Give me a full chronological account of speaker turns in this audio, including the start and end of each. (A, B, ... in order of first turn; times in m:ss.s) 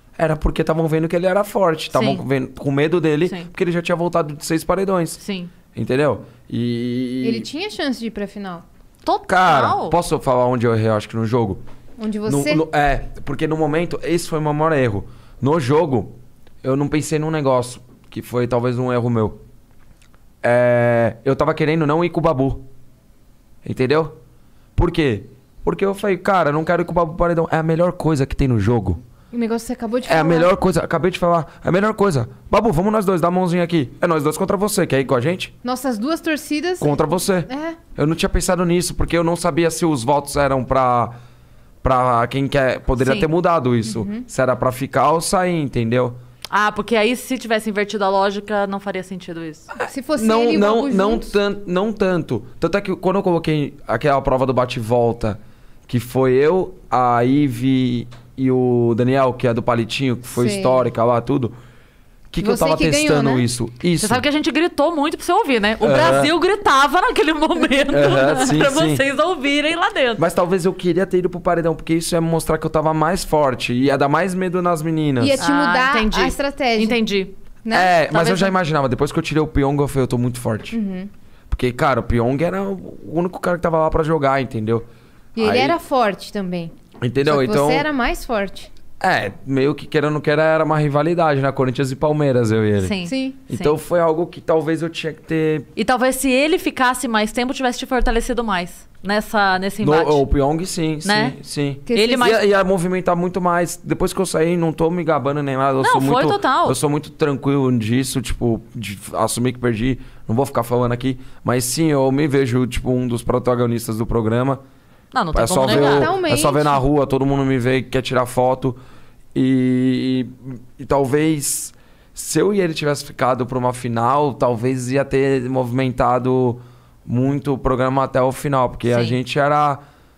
0:00.2-0:05.2 A
0:01.9-0:02.2 B
0:05.2-0:05.5 B
0:05.8-0:07.5 A
0:07.2-0:08.6 C
0:09.0-0:10.0 B
0:09.3-0:11.6 A
0:12.0-0:12.6 C
0:12.2-0:19.4 A
0:20.4-0:22.6 A
0:23.6-0:24.1 A
0:24.8-0:29.0 A
0:29.3-0:30.5 C
0:30.0-0:35.5 A
0:35.6-0:37.8 C
0:36.8-0:41.2 A
0:41.8-0:46.2 A
0:43.0-0:43.3 B
0:43.8-0:44.2 C
0:46.5-0:49.7 B
0:49.7-1:01.6 A
0:49.9-0:51.4 C
1:00.3-1:00.8 C
1:02.3-1:04.2 A
1:02.4-1:03.4 C
1:04.0-1:10.2 B
1:05.8-1:06.3 A
1:07.9-1:09.0 A
1:10.2-1:15.4 A
1:15.2-1:17.0 C
1:15.4-1:17.3 B
1:17.6-1:17.9 C
1:17.7-1:20.8 A
1:18.1-1:18.5 B
1:20.7-1:21.1 C
1:21.5-1:24.9 A
1:25.4-1:26.7 C
1:25.4-1:25.8 A
1:27.0-1:27.9 A
1:27.2-1:28.7 C
1:29.0-1:33.0 A
1:32.8-1:33.8 B
1:33.0-1:33.4 C
1:33.5-1:35.7 A
1:35.8-1:40.2 B
1:39.8-1:54.6 A
1:41.0-1:41.4 B
1:41.9-1:42.3 C
1:41.9-1:42.4 B
1:45.8-1:46.8 B
1:55.1-1:56.1 B
1:55.3-1:58.8 A
1:55.6-1:56.8 C
1:59.4-2:09.8 A
2:08.9-2:09.2 B